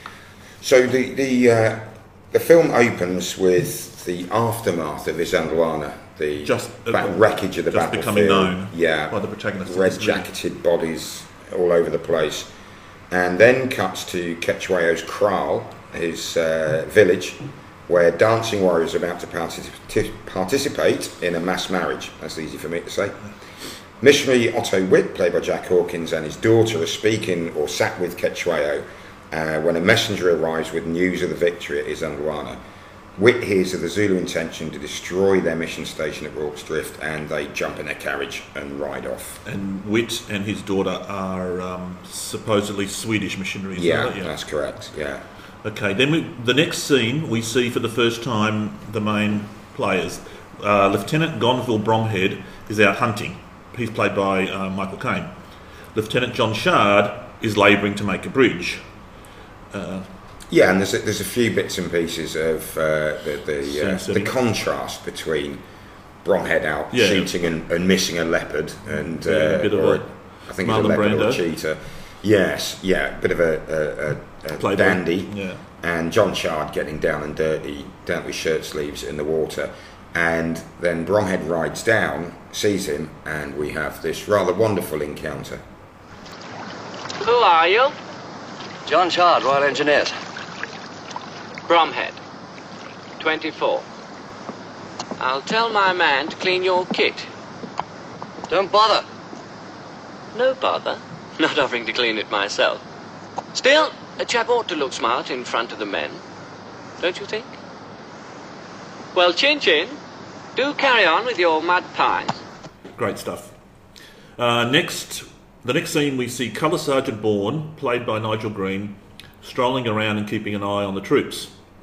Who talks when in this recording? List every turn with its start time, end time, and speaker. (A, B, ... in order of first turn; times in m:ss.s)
0:00.6-0:12.5 A
0:06.4-0:10.3 B
0:13.1-0:23.3 A
0:24.0-0:32.6 A
0:33.2-0:39.4 A
0:39.4-0:44.4 B
0:43.8-0:45.2 A
0:45.6-0:55.4 B
0:56.0-0:58.9 B
0:59.7-1:00.1 B
1:00.5-1:05.6 A
1:03.6-1:04.4 B
1:06.2-1:25.6 A
1:06.9-1:07.4 B
1:08.9-1:11.4 B
1:14.6-1:15.6 B
1:27.2-1:28.0 C
1:28.9-1:30.2 D
1:31.7-1:32.2 C
1:33.2-1:33.9 C
1:35.2-1:37.3 C
1:38.5-1:39.1 D
1:40.3-1:42.8 C
1:43.5-1:46.2 C
1:47.0-1:47.5 C
1:49.1-1:50.0 C
1:50.6-1:52.4 C
1:53.0-1:53.6 B
1:54.4-2:01.5 B